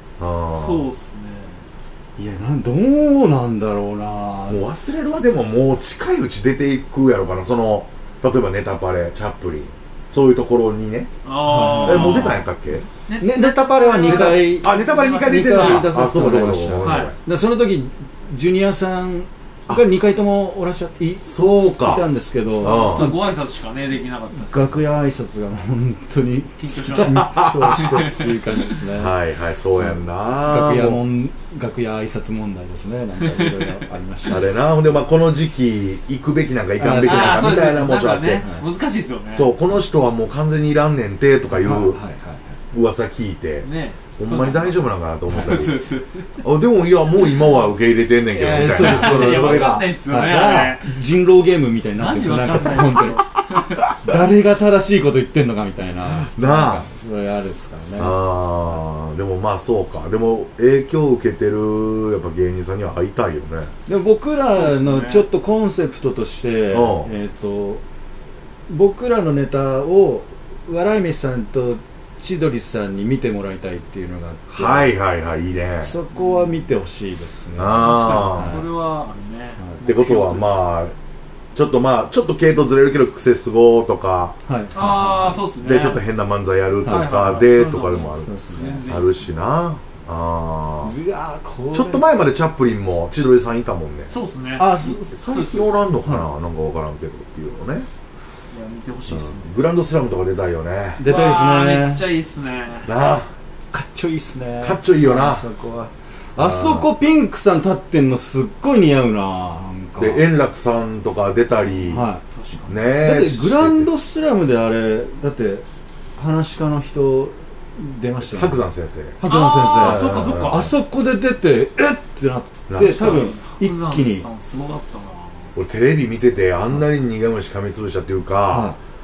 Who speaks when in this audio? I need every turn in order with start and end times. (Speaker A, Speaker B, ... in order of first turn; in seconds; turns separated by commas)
Speaker A: 0.2-0.9, Speaker B: 0.5-1.6, Speaker C: 2.2-4.6, Speaker A: 4.5-11.1, Speaker B: 11.2-12.4, Speaker C: 11.4-12.3, Speaker A: 11.7-12.9, Speaker B: 13.1-15.9, Speaker C: 13.2-23.2, Speaker A: 14.0-17.2, Speaker B: 16.8-17.1, Speaker A: 21.2-22.1, Speaker A: 22.6-23.1, Speaker B: 22.6-24.8, Speaker C: 24.4-29.1, Speaker B: 26.6-28.3, Speaker A: 26.9-28.1, Speaker A: 28.9-31.0, Speaker C: 30.4-34.5, Speaker B: 33.3-33.8, Speaker A: 34.3-38.5, Speaker C: 36.8-37.7, Speaker B: 37.0-39.5, Speaker A: 39.3-42.0, Speaker C: 41.5-42.6, Speaker A: 42.7-45.8, Speaker B: 43.6-46.4, Speaker A: 46.4-50.8, Speaker C: 48.3-53.2, Speaker B: 48.7-50.9, Speaker B: 52.0-53.8, Speaker A: 53.8-54.1, Speaker C: 54.0-58.2, Speaker A: 56.2-56.9, Speaker A: 58.0-63.7, Speaker C: 63.9-67.8, Speaker B: 64.5-65.3, Speaker A: 66.7-67.1, Speaker C: 68.7-74.9, Speaker A: 74.5-76.0, Speaker C: 75.8-78.7, Speaker B: 76.1-76.5, Speaker A: 77.6-78.6, Speaker B: 77.8-80.6, Speaker C: 79.6-79.8, Speaker A: 79.8-81.0, Speaker A: 81.5-84.3, Speaker C: 84.5-85.4, Speaker B: 84.7-86.0, Speaker A: 85.6-88.3, Speaker C: 86.8-87.1, Speaker B: 86.8-89.4, Speaker C: 88.2-88.8, Speaker A: 88.9-90.9, Speaker C: 90.8-92.1, Speaker A: 91.7-94.1, Speaker B: 94.1-95.7, Speaker C: 94.6-95.1, Speaker A: 94.8-97.9, Speaker C: 96.0-96.3, Speaker B: 98.5-99.6, Speaker A: 99.1-101.0, Speaker C: 101.0-102.0, Speaker B: 101.0-102.9, Speaker A: 102.8-103.3, Speaker C: 103.7-110.2, Speaker A: 104.6-105.5, Speaker A: 106.4-106.9, Speaker A: 110.0-112.1, Speaker B: 111.6-112.8, Speaker C: 111.9-112.2, Speaker A: 112.7-113.9, Speaker C: 112.9-115.7, Speaker C: 116.2-118.6, Speaker A: 118.3-119.2, Speaker C: 119.2-124.3, Speaker B: 119.2-120.7, Speaker A: 119.8-120.7, Speaker A: 122.7-123.3, Speaker B: 122.9-125.5, Speaker A: 125.6-128.8, Speaker C: 128.5-128.8